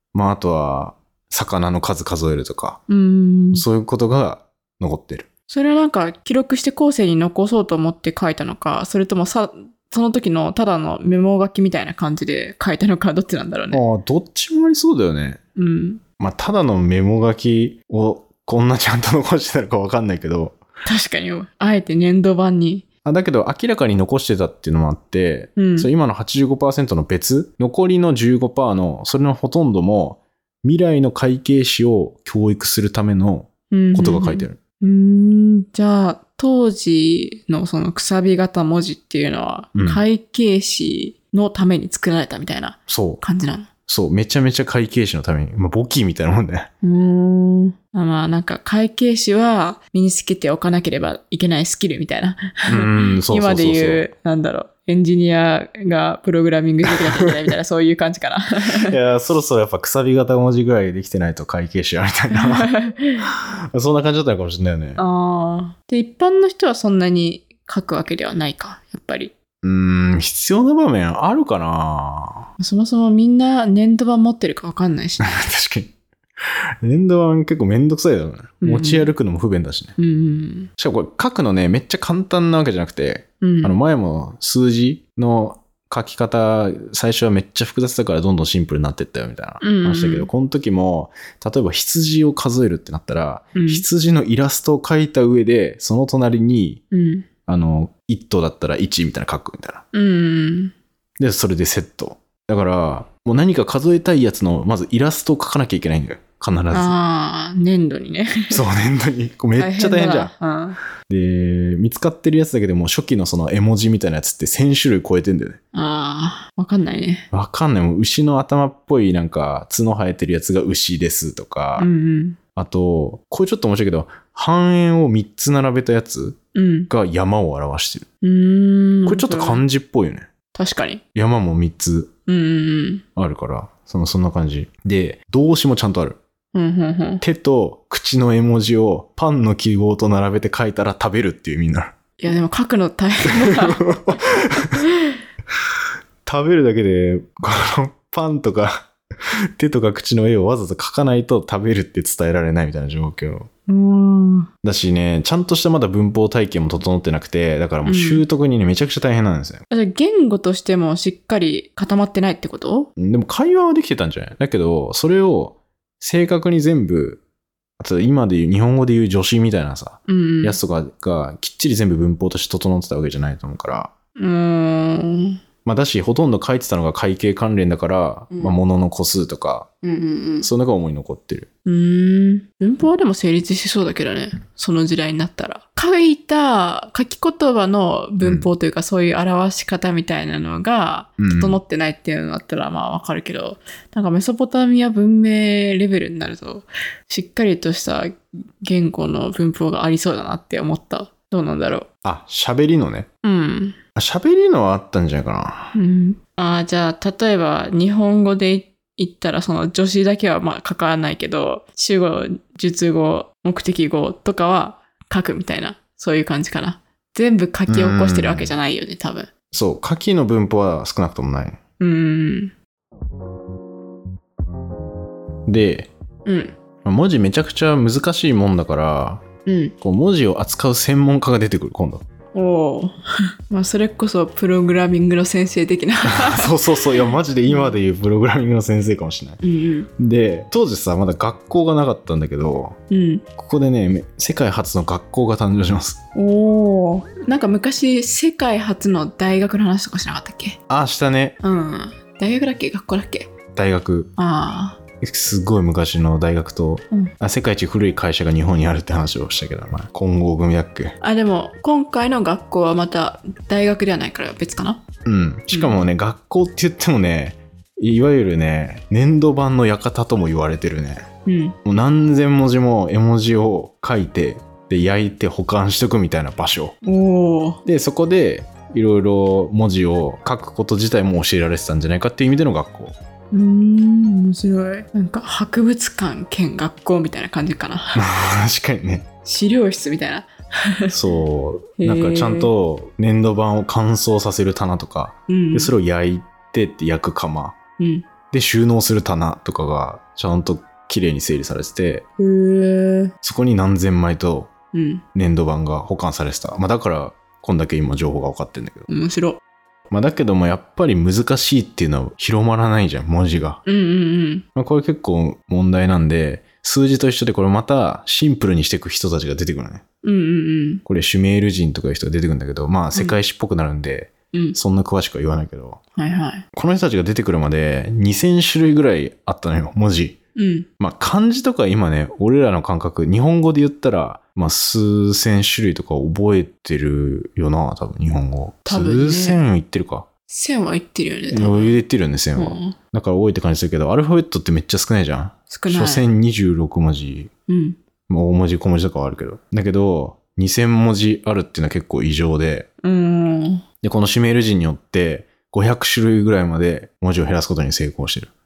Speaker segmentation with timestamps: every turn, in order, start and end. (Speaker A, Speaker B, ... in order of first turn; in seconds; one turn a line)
Speaker A: 0.1-2.8
Speaker B: 2.9-3.6
Speaker A: 3.5-5.3
Speaker B: 5.5-13.8
Speaker A: 13.7-15.4
Speaker B: 15.6-16.0
Speaker A: 16.2-20.6
Speaker B: 20.8-22.8
Speaker A: 23.0-34.6
Speaker B: 25.6-25.9
Speaker B: 33.7-43.7
Speaker A: 39.7-40.0
Speaker A: 42.9-43.2
Speaker A: 43.9-46.7
Speaker B: 46.8-59.0
Speaker A: 52.7-54.0
Speaker A: 56.9-57.3
Speaker A: 58.8-62.7
Speaker B: 62.3-63.3
Speaker A: 63.3-65.0
Speaker B: 65.0-69.3
Speaker A: 69.6-72.5
Speaker B: 72.6-75.3
Speaker A: 75.2-75.9
Speaker A: 76.4-79.9
Speaker B: 78.6-79.1
Speaker B: 80.0-80.7
Speaker A: 80.8-96.8
Speaker B: 83.4-83.7
Speaker B: 89.6-90.3
Speaker B: 93.5-93.8
Speaker B: 96.9-97.3
Speaker A: 97.5-99.8
Speaker B: 99.9-100.7
Speaker A: 101.2-106.9
Speaker B: 106.7-108.6
Speaker A: 108.5-110.3
Speaker B: 109.6-110.8
Speaker A: 111.1-115.6
Speaker B: 115.7-117.3
Speaker A: 117.3-121.9
Speaker B: 121.8-122.4
Speaker A: 122.5-126.4
Speaker B: 126.5-126.9
Speaker A: 126.9-128.1
Speaker B: 128.2-129.6
Speaker A: 129.1-130.3
Speaker B: 130.5-131.0
Speaker A: 131.1-132.1
Speaker B: 132.3-133.0
Speaker A: 133.2-136.2
Speaker B: 136.5-137.2
Speaker A: 137.2-141.9
Speaker B: 142.2-145.2
Speaker A: 143.3-144.8
Speaker A: 146.2-153.5
Speaker B: 153.7-154.5
Speaker A: 154.6-159.6
Speaker B: 157.8-158.2
Speaker B: 159.7-162.9
Speaker A: 163.0-167.2
Speaker A: 167.8-173.9
Speaker B: 170.1-170.6
Speaker B: 174.2-175.4
Speaker A: 175.6-179.7
Speaker B: 178.3-178.6
Speaker B: 179.8-180.5
Speaker A: 180.4-181.5
Speaker B: 181.6-201.9
Speaker A: 188.2-188.5
Speaker A: 191.2-191.6
Speaker A: 202.0-203.1
Speaker B: 203.2-203.8
Speaker A: 203.9-205.7
Speaker B: 205.7-219.3
Speaker A: 217.7-218.5
Speaker A: 219.5-221.6
Speaker B: 221.8-222.5
Speaker A: 225.5-225.9
Speaker B: 226.2-226.6
Speaker A: 226.8-229.2
Speaker B: 229.4-229.7
Speaker A: 229.8-232.0
Speaker B: 232.3-233.0
Speaker B: 233.5-237.8
Speaker A: 236.1-239.4
Speaker B: 239.4-239.9
Speaker A: 240.0-242.8
Speaker B: 242.9-243.2
Speaker A: 243.3-246.0
Speaker B: 246.1-250.6
Speaker A: 250.7-251.4
Speaker B: 251.4-253.3
Speaker A: 253.5-254.1
Speaker B: 254.2-254.8
Speaker A: 255.0-260.9
Speaker B: 261.0-264.8
Speaker A: 265.0-271.1
Speaker B: 265.5-265.8
Speaker B: 271.2-271.6
Speaker A: 271.6-276.8
Speaker B: 276.8-277.6
Speaker A: 277.6-282.9
Speaker B: 283.3-288.0
Speaker A: 287.9-289.1
Speaker B: 289.2-291.0
Speaker A: 290.9-297.6
Speaker B: 291.8-292.5
Speaker B: 295.3-295.7
Speaker B: 297.8-298.1
Speaker A: 298.3-302.0
Speaker B: 302.2-303.1
Speaker A: 303.2-304.5
Speaker B: 304.7-305.0
Speaker A: 305.1-308.9
Speaker B: 308.9-309.4
Speaker A: 309.9-313.6
Speaker B: 313.6-314.4
Speaker A: 314.6-319.8
Speaker B: 320.0-320.8
Speaker A: 320.9-325.8
Speaker B: 325.9-326.4
Speaker A: 326.5-330.2
Speaker B: 330.4-330.7
Speaker A: 330.8-340.1
Speaker B: 338.6-339.4
Speaker B: 340.3-341.7
Speaker A: 341.3-347.3
Speaker B: 342.3-342.8
Speaker B: 345.5-346.0
Speaker B: 347.5-347.8
Speaker A: 348.1-352.7
Speaker B: 352.8-353.6
Speaker A: 353.8-358.3